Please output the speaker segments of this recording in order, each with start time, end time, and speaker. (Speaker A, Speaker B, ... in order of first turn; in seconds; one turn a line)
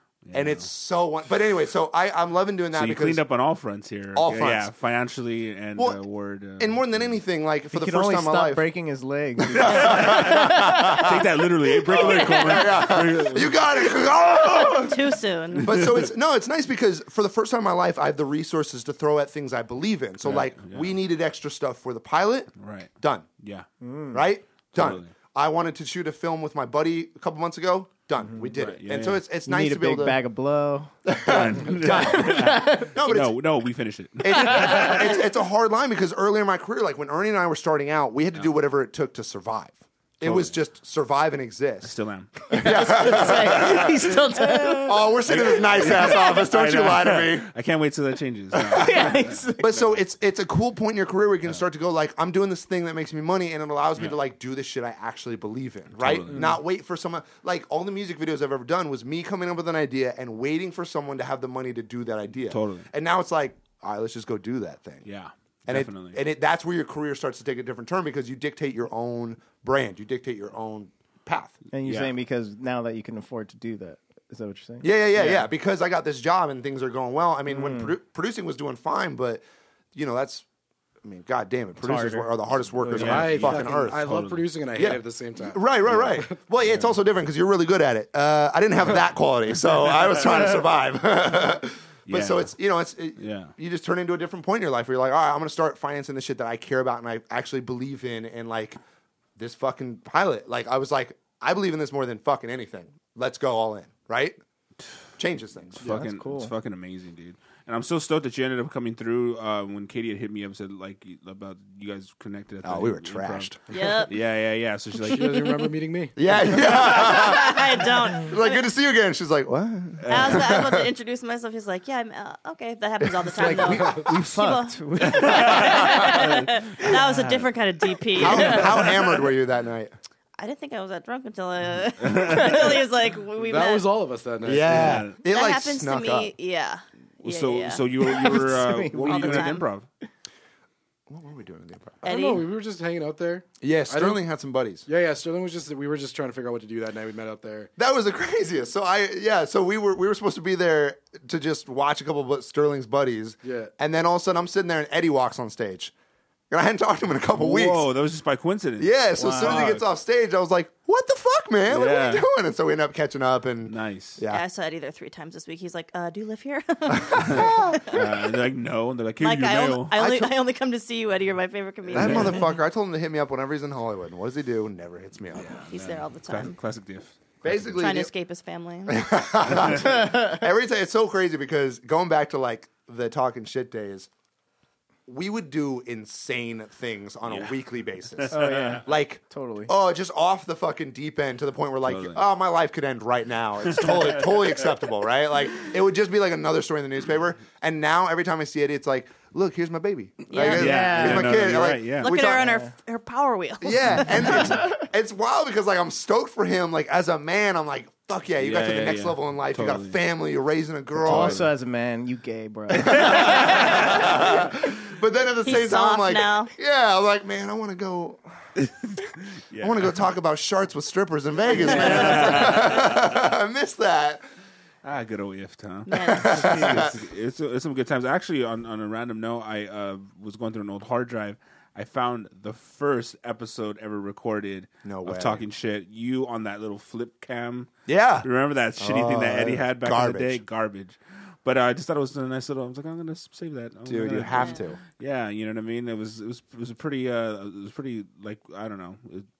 Speaker A: 0.2-0.7
Speaker B: 0.3-3.2
Speaker A: 2.7-7.2
Speaker B: 4.1-4.7
Speaker B: 6.6-8.6
Speaker C: 7.7-11.0
Speaker B: 9.4-11.2
Speaker A: 9.5-13.8
Speaker B: 11.8-23.3
Speaker D: 12.1-12.5
Speaker D: 14.8-15.7
Speaker A: 15.6-16.1
Speaker A: 20.2-20.9
Speaker A: 22.6-23.7
Speaker C: 23.8-24.2
Speaker B: 24.1-30.2
Speaker A: 24.7-25.1
Speaker A: 28.6-29.2
Speaker C: 29.4-30.9
Speaker B: 31.1-33.4
Speaker A: 31.2-35.1
Speaker C: 31.8-32.9
Speaker B: 34.2-41.9
Speaker A: 40.2-40.5
Speaker A: 41.8-49.9
Speaker C: 42.5-44.9
Speaker B: 42.5-44.2
Speaker B: 44.8-47.5
Speaker B: 48.5-65.0
Speaker C: 48.7-49.6
Speaker A: 55.9-56.6
Speaker A: 62.5-62.9
Speaker A: 65.0-66.2
Speaker B: 65.7-71.6
Speaker C: 71.7-74.9
Speaker A: 71.8-72.1
Speaker B: 74.8-79.4
Speaker C: 77.5-77.9
Speaker B: 79.9-80.5
Speaker B: 81.0-84.1
Speaker C: 81.8-83.2
Speaker E: 82.9-86.4
Speaker A: 82.9-84.5
Speaker B: 84.8-98.8
Speaker A: 92.1-92.5
Speaker A: 93.2-93.5
Speaker B: 99.4-104.4
Speaker B: 105.2-105.8
Speaker A: 105.8-115.4
Speaker C: 105.8-106.5
Speaker B: 112.6-113.6
Speaker D: 113.7-114.1
Speaker E: 115.0-116.2
Speaker B: 116.2-120.9
Speaker D: 116.8-118.6
Speaker A: 120.0-120.5
Speaker D: 120.1-128.9
Speaker C: 123.3-126.1
Speaker A: 125.2-127.0
Speaker B: 125.3-126.1
Speaker B: 128.1-129.9
Speaker C: 128.2-128.7
Speaker D: 130.4-133.8
Speaker A: 132.0-132.8
Speaker E: 133.3-135.0
Speaker B: 134.4-136.3
Speaker A: 134.6-135.2
Speaker D: 135.3-138.3
Speaker A: 137.2-139.9
Speaker C: 138.0-139.5
Speaker D: 139.1-139.6
Speaker B: 141.1-142.0
Speaker D: 142.0-142.4
Speaker E: 142.0-144.2
Speaker B: 143.6-144.8
Speaker E: 144.8-147.7
Speaker B: 147.8-155.9
Speaker E: 153.4-153.7
Speaker B: 156.5-157.9
Speaker A: 157.3-159.8
Speaker B: 158.8-164.4
Speaker C: 159.2-159.7
Speaker A: 161.7-162.2
Speaker A: 163.7-164.2
Speaker D: 164.3-168.0
Speaker B: 167.0-168.0
Speaker A: 167.1-169.9
Speaker D: 169.2-172.4
Speaker B: 169.9-170.3
Speaker A: 171.9-172.5
Speaker B: 171.9-175.6
Speaker A: 175.4-177.7
Speaker D: 175.7-176.5
Speaker B: 177.4-178.1
Speaker D: 177.8-179.0
Speaker B: 178.9-184.1
Speaker A: 179.5-179.8
Speaker B: 185.1-202.5
Speaker A: 187.3-187.5
Speaker A: 188.2-188.8
Speaker C: 188.3-189.7
Speaker A: 191.8-192.2
Speaker A: 193.7-194.5
Speaker D: 200.3-200.6
Speaker A: 200.4-202.2
Speaker C: 200.5-201.4
Speaker D: 202.0-204.5
Speaker C: 202.4-202.7
Speaker B: 203.6-211.4
Speaker C: 204.2-204.8
Speaker A: 208.4-210.0
Speaker C: 210.9-213.8
Speaker A: 211.1-211.5
Speaker B: 212.7-218.5
Speaker A: 213.1-213.9
Speaker D: 215.4-216.5
Speaker A: 218.6-219.8
Speaker B: 219.6-224.2
Speaker A: 221.5-223.1
Speaker D: 221.8-222.6
Speaker A: 224.8-237.7
Speaker D: 225.9-226.6
Speaker B: 226.0-226.9
Speaker B: 234.8-235.4
Speaker B: 237.9-240.4
Speaker A: 238.2-249.3
Speaker B: 243.8-244.8
Speaker D: 244.3-244.6